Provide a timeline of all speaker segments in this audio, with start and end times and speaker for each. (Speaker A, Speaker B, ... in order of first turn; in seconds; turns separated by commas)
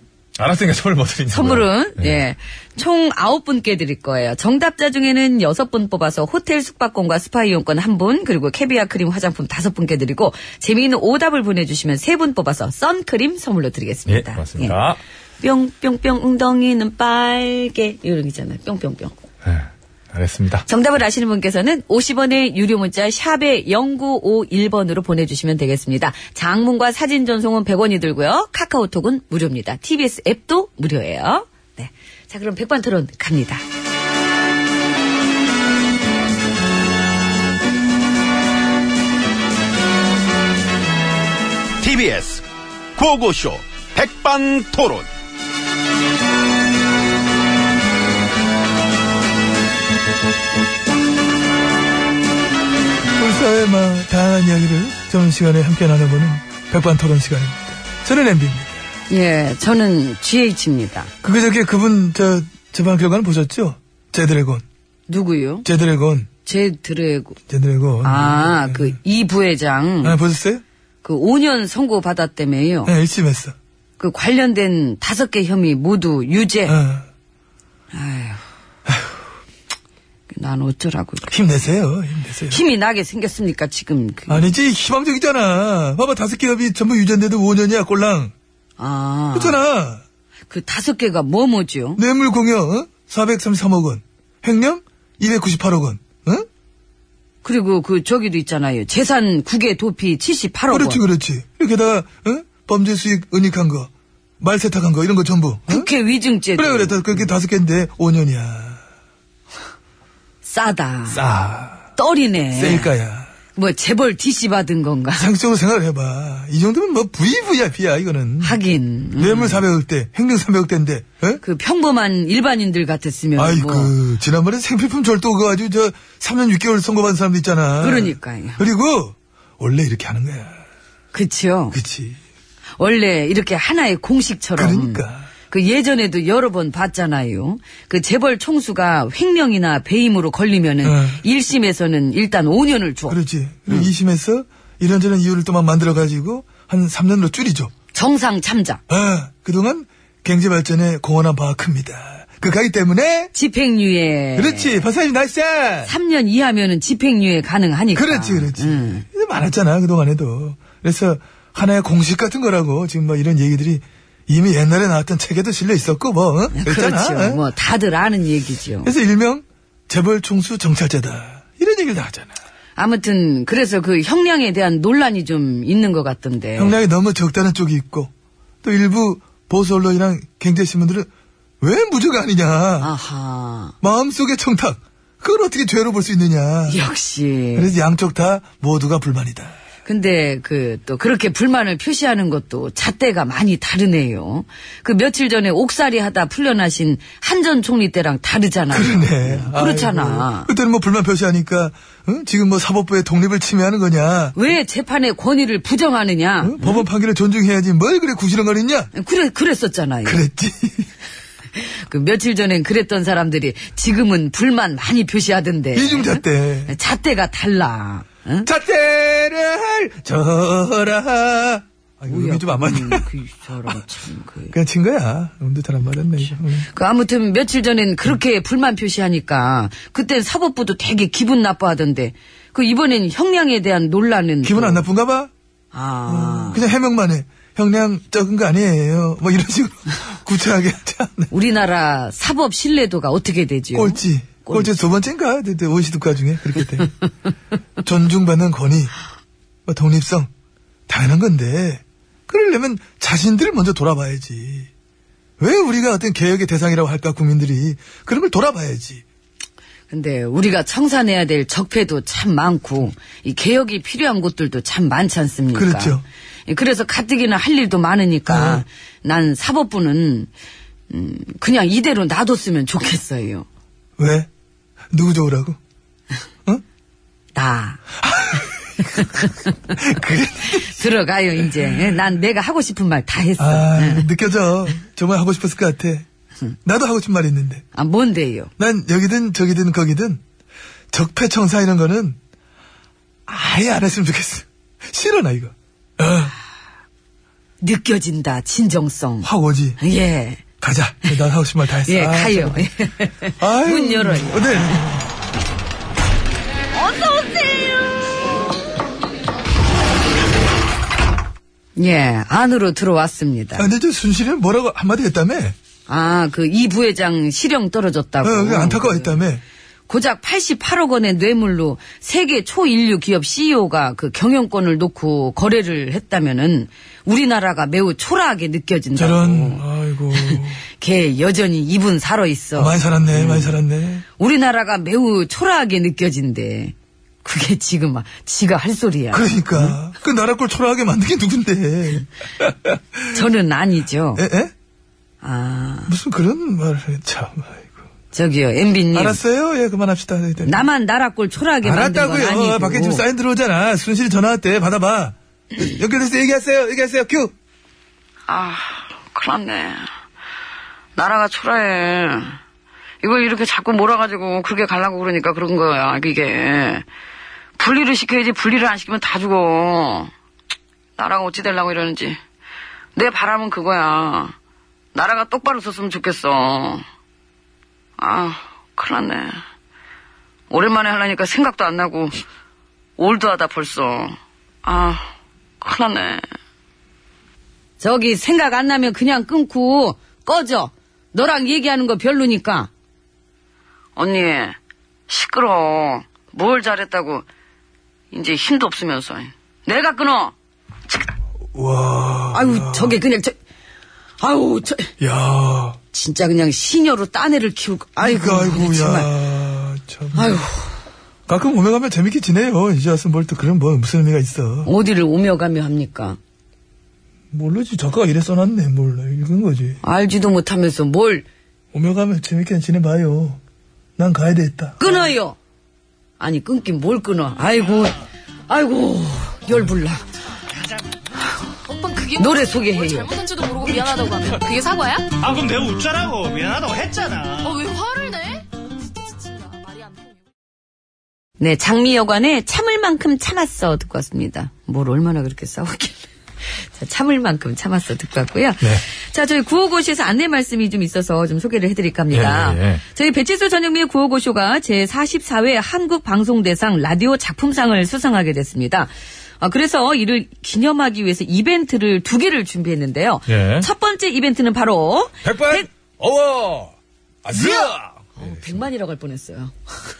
Speaker A: 0.4-2.2, Speaker B: 1.3-14.8, Speaker A: 14.1-15.0, Speaker B: 15.4-19.1, Speaker A: 19.4-20.6, Speaker B: 20.7-33.6, Speaker C: 41.8-42.4, Speaker C: 43.0-45.1, Speaker D: 53.1-58.7, Speaker B: 59.1-61.1, Speaker D: 61.2-64.6, Speaker B: 65.1-65.7, Speaker D: 65.6-66.3, Speaker B: 66.5-67.4, Speaker D: 67.5-69.0, Speaker B: 68.0-70.2, Speaker D: 70.0-70.6, Speaker B: 71.0-72.9, Speaker D: 72.8-73.5, Speaker B: 74.0-76.8, Speaker D: 76.7-77.0, Speaker B: 77.9-78.4, Speaker B: 80.3-81.3, Speaker D: 81.3-82.6, Speaker B: 82.5-84.5, Speaker D: 84.3-88.3, Speaker B: 88.8-89.6, Speaker D: 89.3-90.0, Speaker B: 90.5-92.0, Speaker D: 92.0-96.5, Speaker B: 97.4-101.0, Speaker D: 100.7-105.9, Speaker B: 105.7-107.0, Speaker D: 106.5-108.8, Speaker B: 110.4-111.2, Speaker D: 111.2-111.8, Speaker B: 112.0-112.9, Speaker D: 112.5-113.3, Speaker B: 113.5-115.3, Speaker D: 115.2-118.6, Speaker B: 118.4-119.6, Speaker D: 119.2-121.4, Speaker B: 121.4-123.9, Speaker D: 123.3-130.6, Speaker B: 127.8-128.6, Speaker B: 131.1-131.8, Speaker D: 131.7-132.2, Speaker B: 132.8-143.9, Speaker D: 134.6-135.3, Speaker D: 140.8-141.2, Speaker D: 143.1-147.7, Speaker B: 147.9-148.8, Speaker D: 148.9-153.3, Speaker B: 153.3-154.8, Speaker D: 154.3-155.9, Speaker B: 155.8-159.0, Speaker D: 157.9-167.4, Speaker B: 166.5-168.9, Speaker D: 168.8-172.3, Speaker B: 172.8-176.8, Speaker D: 176.6-178.1, Speaker D: 178.6-181.1, Speaker D: 181.6-182.9, Speaker B: 182.8-183.7, Speaker D: 183.8-186.8, Speaker B: 186.7-187.7, Speaker D: 187.5-189.6, Speaker B: 189.8-200.5, Speaker D: 198.7-204.4, Speaker B: 204.3-206.8, Speaker D: 206.4-208.9, Speaker B: 208.9-210.2, Speaker D: 210.0-210.9, Speaker B: 211.5-218.5, Speaker D: 215.7-216.8, Speaker D: 218.5-223.1, Speaker B: 222.1-224.5, Speaker D: 224.5-226.7, Speaker B: 226.6-234.8, Speaker D: 234.4-235.3, Speaker B: 235.7-236.6, Speaker D: 236.1-241.3, Speaker B: 241.3-244.7, Speaker D: 243.7-246.9, Speaker D: 247.8-248.9, Speaker D: 249.7-250.3, Speaker D: 250.9-254.7, Speaker D: 255.4-259.0, Speaker B: 259.9-270.3, Speaker D: 265.5-266.0, Speaker D: 268.3-268.6, Speaker B: 270.9-273.4, Speaker D: 274.0-274.3, Speaker D: 274.9-275.6, Speaker B: 277.3-277.8, Speaker D: 278.0-278.8, Speaker B: 278.9-279.3, Speaker D: 279.7-280.7, Speaker B: 280.5-284.1, Speaker D: 283.4-286.1, Speaker D: 286.6-287.6, Speaker B: 287.7-288.5, Speaker D: 288.6-290.2, Speaker D: 290.9-292.2, Speaker D: 293.3-296.3, Speaker B: 297.6-300.4, Speaker D: 299.2-299.8, Speaker D: 300.6-302.7, Speaker B: 301.9-304.8, Speaker D: 303.4-305.0, Speaker B: 306.7-307.9, Speaker B: 311.8-313.7, Speaker D: 313.5-315.6, Speaker B: 315.9-319.2, Speaker D: 318.2-319.4, Speaker B: 319.9-333.6, Speaker D: 328.9-330.6, Speaker D: 332.6-334.0, Speaker B: 334.2-339.7, Speaker D: 339.1-343.2, Speaker B: 343.1-344.2, Speaker D: 344.1-344.5, Speaker B: 345.2-345.9, Speaker D: 345.9-347.8, Speaker B: 348.1-349.2, Speaker D: 348.9-350.6, Speaker B: 350.4-353.0, Speaker D: 351.6-357.3, Speaker B: 358.3-359.9, Speaker B: 360.9-362.4, Speaker B: 363.0-366.8, Speaker B: 367.6-370.1, Speaker B: 371.0-372.2, Speaker B: 372.9-374.3, Speaker B: 374.9-376.8, Speaker B: 378.0-379.4, Speaker B: 380.5-382.2, Speaker B: 383.0-385.0, Speaker B: 385.6-386.2, Speaker B: 387.8-392.7, Speaker B: 393.9-394.6, Speaker B: 395.1-397.2, Speaker B: 398.1-400.3, Speaker D: 401.5-403.0, Speaker B: 402.3-403.4, Speaker B: 404.2-404.9, Speaker D: 405.0-405.8, Speaker B: 405.9-409.1, Speaker D: 408.0-410.4, Speaker B: 410.1-410.7, Speaker D: 411.3-414.7, Speaker B: 414.6-416.2, Speaker D: 417.3-419.8, Speaker B: 419.8-421.2, Speaker D: 421.7-423.4, Speaker D: 424.0-424.9, Speaker B: 424.8-425.4, Speaker B: 426.2-430.0, Speaker E: 431.6-435.1, Speaker B: 432.2-433.1, Speaker F: 435.2-437.5, Speaker E: 437.4-438.4, Speaker E: 439.1-440.1, Speaker B: 441.4-465.7, Speaker A: 452.1-452.8, Speaker A: 463.3-463.7, Speaker A: 465.2-468.6, Speaker B: 467.3-469.5